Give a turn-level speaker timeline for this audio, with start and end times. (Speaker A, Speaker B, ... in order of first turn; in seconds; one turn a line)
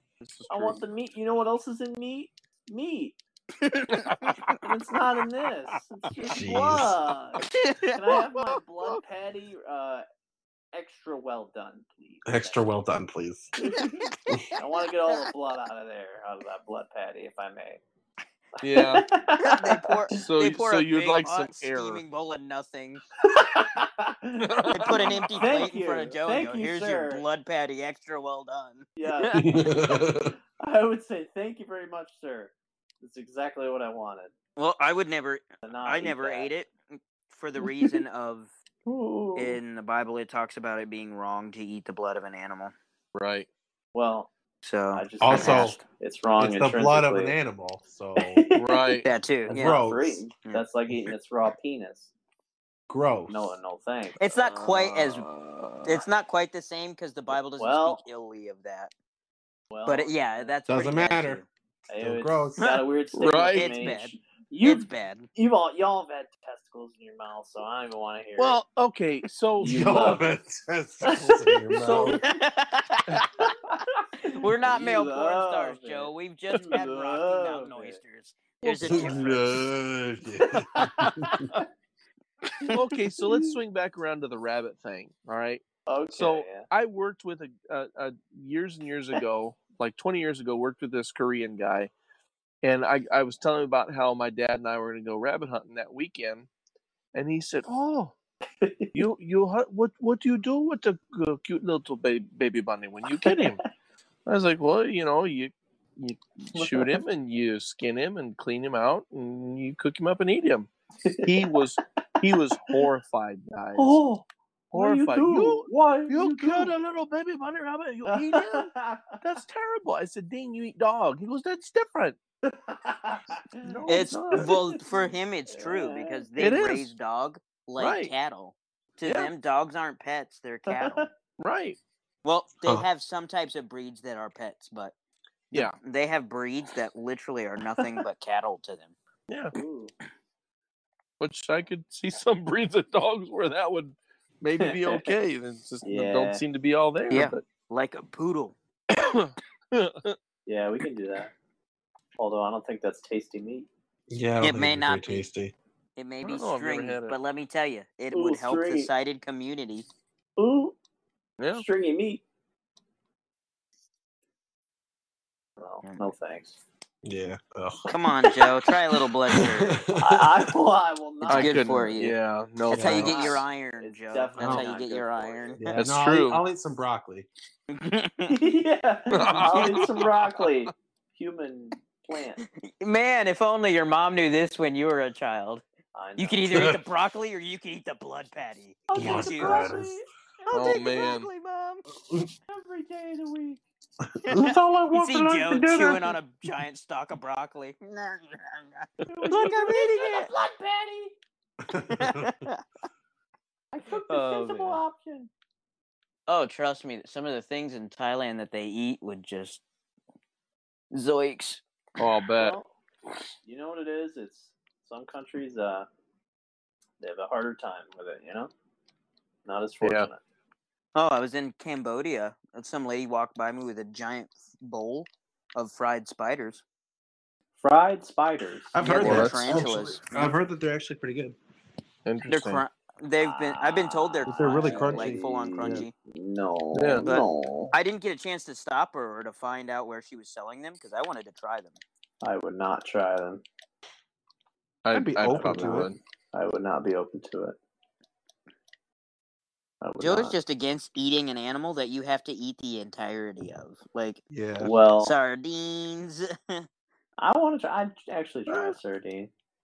Speaker A: 0.2-0.8
Speaker B: 0.5-3.2
Speaker C: 3.6-4.6
Speaker A: 4.0-4.4
Speaker B: 4.6-10.0
Speaker D: 6.3-7.0
Speaker C: 7.5-8.0
Speaker A: 8.4-8.9
Speaker B: 10.7-12.6
Speaker D: 12.2-13.5
Speaker B: 13.6-17.8
Speaker C: 14.3-14.6
Speaker A: 18.6-19.1
Speaker B: 18.6-20.1
Speaker C: 19.4-23.0
Speaker A: 20.2-22.0
Speaker B: 23.2-27.2
Speaker A: 24.4-25.5
Speaker C: 24.7-29.5
Speaker B: 28.9-34.3
Speaker D: 29.3-30.3
Speaker C: 34.5-38.5
Speaker B: 35.6-36.5
Speaker B: 38.8-39.6
Speaker C: 39.4-42.7
Speaker A: 43.1-43.5
Speaker B: 43.9-44.3
Speaker C: 44.6-45.8
Speaker B: 44.9-47.4
Speaker D: 45.2-45.8
Speaker D: 46.4-48.4
Speaker B: 48.2-52.1
Speaker A: 48.5-49.1
Speaker C: 49.0-49.8
Speaker D: 49.5-50.2
Speaker D: 52.9-53.5
Speaker B: 53.3-54.5
Speaker C: 54.2-55.3
Speaker A: 54.5-56.0
Speaker C: 55.8-58.9
Speaker B: 57.5-58.0
Speaker B: 59.7-60.5
Speaker C: 59.9-61.5
Speaker D: 60.7-62.6
Speaker B: 61.9-68.6
Speaker C: 62.6-65.3
Speaker A: 63.1-63.8
Speaker A: 68.4-70.1
Speaker B: 69.6-70.2
Speaker D: 69.6-72.2
Speaker B: 71.0-72.2
Speaker A: 71.7-72.2
Speaker C: 72.1-73.5
Speaker B: 73.4-78.0
Speaker C: 74.2-79.6
Speaker A: 78.6-79.3
Speaker D: 78.8-81.5
Speaker B: 80.4-81.7
Speaker B: 82.6-83.5
Speaker A: 82.7-91.9
Speaker B: 85.8-86.7
Speaker A: 92.6-96.5
Speaker A: 97.1-98.1
Speaker B: 98.6-99.0
Speaker A: 98.9-103.6
Speaker B: 103.1-103.5
Speaker A: 104.2-110.7
Speaker B: 106.5-107.0
Speaker B: 111.0-111.5
Speaker A: 111.2-114.0
Speaker B: 112.2-112.8
Speaker B: 113.8-116.7
Speaker A: 114.7-122.2
Speaker B: 118.1-119.2
Speaker B: 122.4-126.2
Speaker A: 123.6-124.5
Speaker C: 123.9-131.1
Speaker A: 126.4-126.9
Speaker A: 127.8-128.1
Speaker A: 129.0-129.3
Speaker B: 130.7-131.1
Speaker A: 131.4-131.8
Speaker C: 132.2-134.9
Speaker C: 135.5-138.9
Speaker B: 139.5-139.9
Speaker A: 141.2-147.4
Speaker B: 144.6-145.1
Speaker B: 145.8-146.4
Speaker C: 147.1-148.6
Speaker A: 148.9-150.2
Speaker B: 150.4-151.3
Speaker B: 152.2-153.7
Speaker D: 154.1-155.5
Speaker C: 154.4-155.2
Speaker C: 155.9-159.9
Speaker A: 156.2-157.2
Speaker B: 158.1-158.9
Speaker B: 160.4-160.7
Speaker A: 161.4-161.6
Speaker B: 161.5-162.2
Speaker B: 165.6-166.6
Speaker D: 167.0-170.5
Speaker C: 167.9-169.8
Speaker B: 169.9-171.9
Speaker C: 171.2-172.2
Speaker A: 171.3-173.2
Speaker C: 172.7-175.7
Speaker D: 172.7-173.2
Speaker B: 172.9-175.6
Speaker D: 174.4-174.7
Speaker D: 175.6-177.3
Speaker A: 175.7-176.4
Speaker C: 177.7-178.4
Speaker B: 178.3-182.4
Speaker A: 179.1-180.5
Speaker C: 179.5-179.8
Speaker C: 182.4-185.6
Speaker B: 185.9-186.7
Speaker C: 186.2-189.7
Speaker D: 186.5-186.8
Speaker B: 188.9-191.1
Speaker D: 188.9-189.9
Speaker C: 190.5-191.8
Speaker A: 190.5-191.3
Speaker B: 192.5-193.6
Speaker D: 194.2-196.2
Speaker C: 194.3-200.3
Speaker A: 199.0-199.4
Speaker B: 199.1-201.2
Speaker D: 201.7-202.5
Speaker C: 201.9-202.6
Speaker B: 203.7-205.3
Speaker C: 204.0-204.8
Speaker C: 206.3-209.6
Speaker C: 210.9-211.6
Speaker A: 212.0-212.6
Speaker B: 212.4-212.7
Speaker B: 213.4-215.9
Speaker B: 217.0-218.5
Speaker B: 219.4-220.2
Speaker A: 219.8-220.1
Speaker C: 220.9-226.6
Speaker B: 227.6-228.9
Speaker D: 228.7-231.4
Speaker C: 228.8-230.3
Speaker A: 228.9-229.5
Speaker A: 232.0-232.6
Speaker C: 232.3-235.9
Speaker B: 233.2-237.7
Speaker D: 234.2-235.9
Speaker A: 236.7-237.1
Speaker C: 237.0-241.8
Speaker B: 242.2-243.4
Speaker A: 244.8-246.0
Speaker D: 244.9-245.9
Speaker B: 246.3-247.6
Speaker B: 249.8-250.3
Speaker C: 250.0-254.2
Speaker D: 254.3-254.7
Speaker B: 254.6-255.1
Speaker C: 255.0-256.6
Speaker B: 257.2-259.3
Speaker A: 258.5-258.8